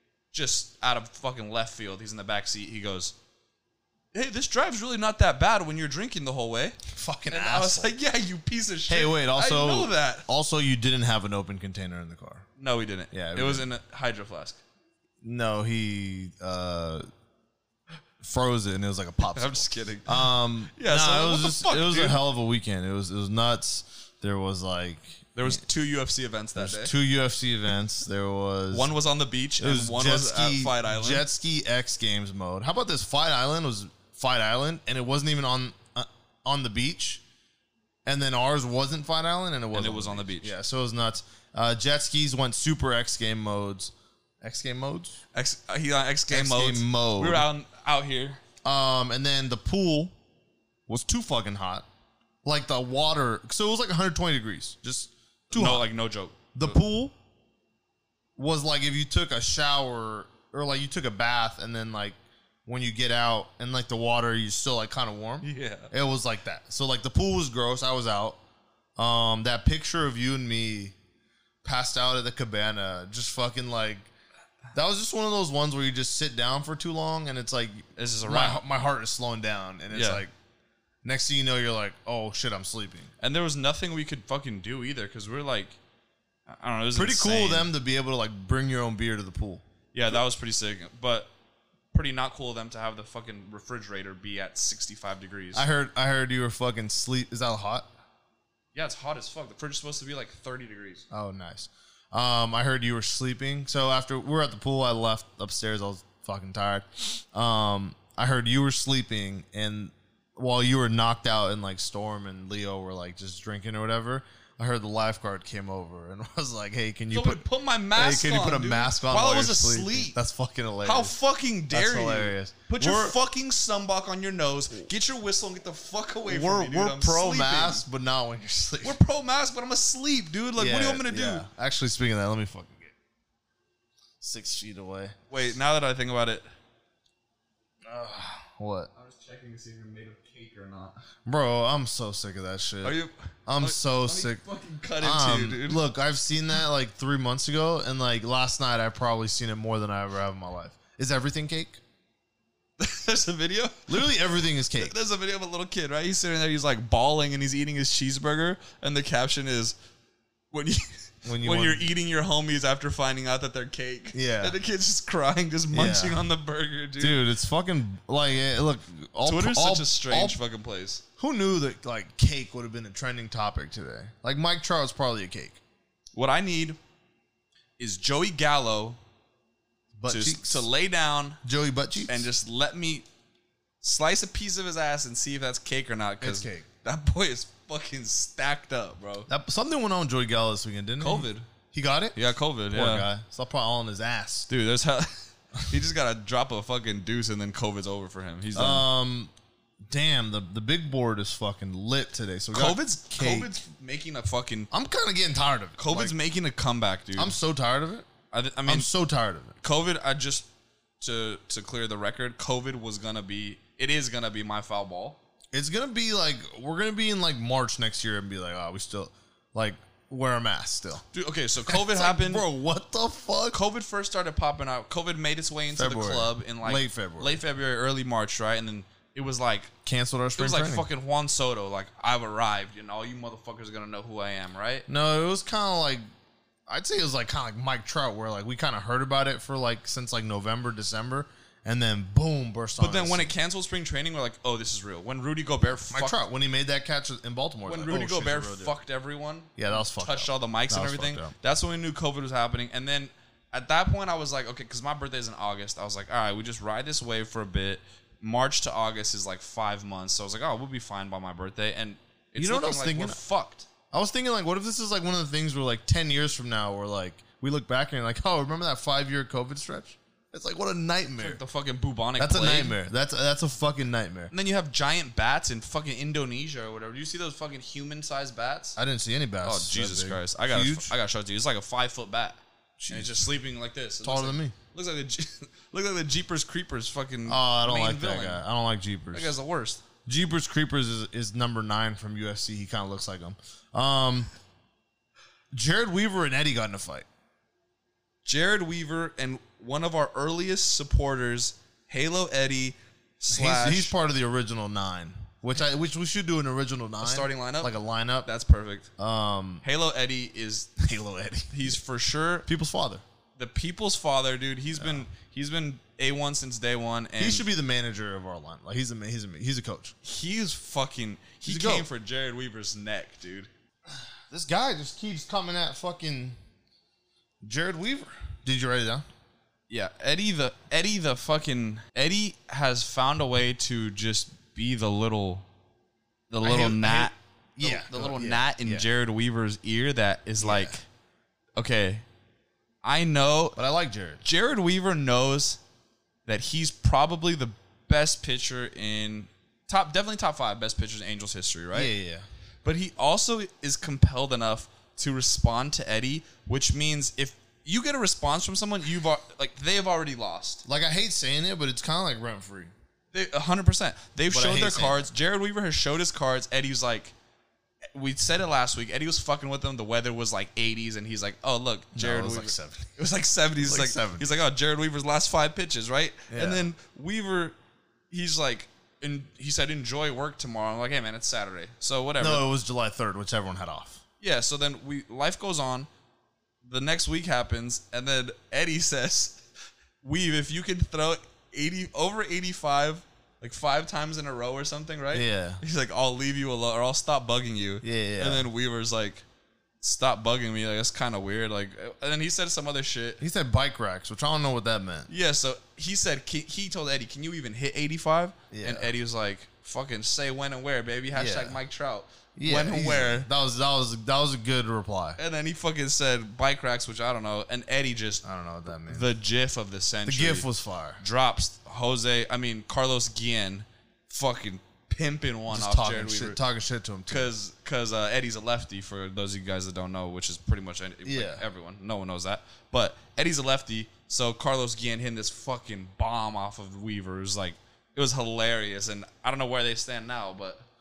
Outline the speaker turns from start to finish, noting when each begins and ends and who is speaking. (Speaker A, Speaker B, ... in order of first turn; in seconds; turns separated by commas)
Speaker A: 0.3-3.1, Speaker A: 4.1-6.8, Speaker B: 6.9-7.9, Speaker A: 7.3-10.3, Speaker B: 8.9-12.5, Speaker A: 12.6-14.6, Speaker B: 13.1-13.7, Speaker B: 15.2-17.1, Speaker B: 18.2-25.6, Speaker A: 19.3-22.2, Speaker A: 25.4-26.9, Speaker B: 26.6-28.9, Speaker A: 28.7-31.2, Speaker B: 29.6-37.2, Speaker B: 38.0-45.2, Speaker A: 39.7-40.5, Speaker A: 45.3-48.4, Speaker B: 46.3-47.5, Speaker B: 48.6-50.1, Speaker B: 50.9-51.9, Speaker B: 52.4-55.9, Speaker A: 55.5-56.8, Speaker B: 56.5-57.1, Speaker B: 58.4-68.4, Speaker A: 65.4-65.9, Speaker B: 69.0-71.0, Speaker B: 71.6-74.1, Speaker B: 74.7-80.3, Speaker A: 78.0-78.6, Speaker A: 79.9-80.2, Speaker B: 81.0-83.1, Speaker A: 83.2-85.8, Speaker A: 86.5-87.7, Speaker B: 86.9-90.2, Speaker A: 89.9-91.3, Speaker A: 91.9-95.7, Speaker B: 95.5-97.9, Speaker A: 98.8-101.0, Speaker B: 101.1-117.4, Speaker A: 117.1-120.2, Speaker B: 118.0-121.2, Speaker A: 120.8-127.8, Speaker B: 121.7-123.2, Speaker B: 126.3-129.0, Speaker A: 128.8-131.5, Speaker B: 130.6-132.9, Speaker B: 134.2-135.2, Speaker A: 135.3-136.5, Speaker B: 137.9-138.9, Speaker A: 138.9-141.0, Speaker B: 141.2-144.4, Speaker A: 142.8-145.8, Speaker B: 145.0-151.8, Speaker A: 152.8-159.8, Speaker B: 153.9-154.9, Speaker A: 160.5-167.2, Speaker B: 161.2-161.9, Speaker B: 164.1-164.6, Speaker B: 165.7-166.3, Speaker B: 167.0-170.4, Speaker A: 169.2-171.0, Speaker B: 171.2-175.6, Speaker A: 176.1-176.8, Speaker A: 177.8-179.0, Speaker B: 180.0-180.7, Speaker A: 180.1-181.4, Speaker B: 181.4-182.3, Speaker A: 182.1-183.1, Speaker A: 183.8-189.3, Speaker B: 186.2-186.7, Speaker B: 189.3-192.2, Speaker A: 191.0-191.5, Speaker A: 192.2-193.1, Speaker B: 192.7-194.5, Speaker A: 194.5-198.9, Speaker B: 198.6-199.3, Speaker B: 199.8-203.5, Speaker A: 202.5-204.7, Speaker B: 204.7-206.2, Speaker A: 205.8-207.4, Speaker B: 207.2-208.1, Speaker A: 208.3-208.9, Speaker B: 208.7-209.6, Speaker A: 209.6-210.5, Speaker A: 211.0-215.2, Speaker B: 215.5-221.0, Speaker A: 221.1-222.5, Speaker B: 221.7-223.6, Speaker A: 223.5-229.7, Speaker B: 225.7-227.3, Speaker B: 229.8-230.9, Speaker A: 230.4-234.9, Speaker B: 234.9-236.0, Speaker B: 236.7-243.3, Speaker A: 242.8-246.2, Speaker B: 245.9-248.8, Speaker A: 247.7-263.7, Speaker B: 249.6-251.3, Speaker B: 262.4-263.2, Speaker B: 263.9-271.4, Speaker A: 271.2-272.8, Speaker B: 272.2-274.3, Speaker A: 274.3-278.8, Speaker B: 278.8-280.9, Speaker A: 279.4-288.4, Speaker B: 282.8-283.2, Speaker B: 284.0-284.6, Speaker B: 287.3-289.3, Speaker A: 289.1-289.8, Speaker B: 290.1-294.3, Speaker B: 295.5-297.1, Speaker A: 298.2-303.9, Speaker B: 303.3-308.3, Speaker A: 307.0-307.7, Speaker A: 308.2-308.9, Speaker B: 309.0-309.6, Speaker A: 309.6-310.7, Speaker B: 310.8-311.8, Speaker A: 311.5-312.5, Speaker B: 312.5-313.0, Speaker A: 313.4-317.5, Speaker B: 314.7-315.1, Speaker B: 317.2-319.9, Speaker A: 320.0-323.5, Speaker B: 321.4-321.9, Speaker B: 323.9-326.4, Speaker B: 327.4-329.1, Speaker A: 329.7-335.4, Speaker A: 336.3-340.9, Speaker B: 336.4-338.9, Speaker B: 340.4-340.8, Speaker A: 341.6-342.0, Speaker A: 342.8-343.6, Speaker B: 343.6-344.2, Speaker A: 344.2-345.6, Speaker A: 346.3-351.9, Speaker B: 351.7-352.3, Speaker A: 352.6-360.6, Speaker B: 360.7-362.7, Speaker A: 363.1-367.1, Speaker B: 364.3-365.0, Speaker A: 367.9-377.6, Speaker B: 372.0-372.9, Speaker B: 373.6-374.4, Speaker B: 376.3-376.7, Speaker A: 378.1-382.4, Speaker B: 382.2-384.0, Speaker A: 384.2-385.9, Speaker A: 386.6-389.5, Speaker A: 390.0-399.2, Speaker B: 395.1-395.6, Speaker B: 397.8-398.5, Speaker A: 399.8-403.2, Speaker B: 403.2-405.1, Speaker A: 405.1-413.3, Speaker B: 408.5-408.9, Speaker B: 411.1-411.6, Speaker B: 412.4-415.2, Speaker A: 415.2-418.2, Speaker B: 418.2-419.1, Speaker A: 418.9-420.5, Speaker B: 420.1-421.0, Speaker A: 421.0-426.4, Speaker B: 425.5-427.3, Speaker A: 427.1-440.7, Speaker B: 431.1-431.4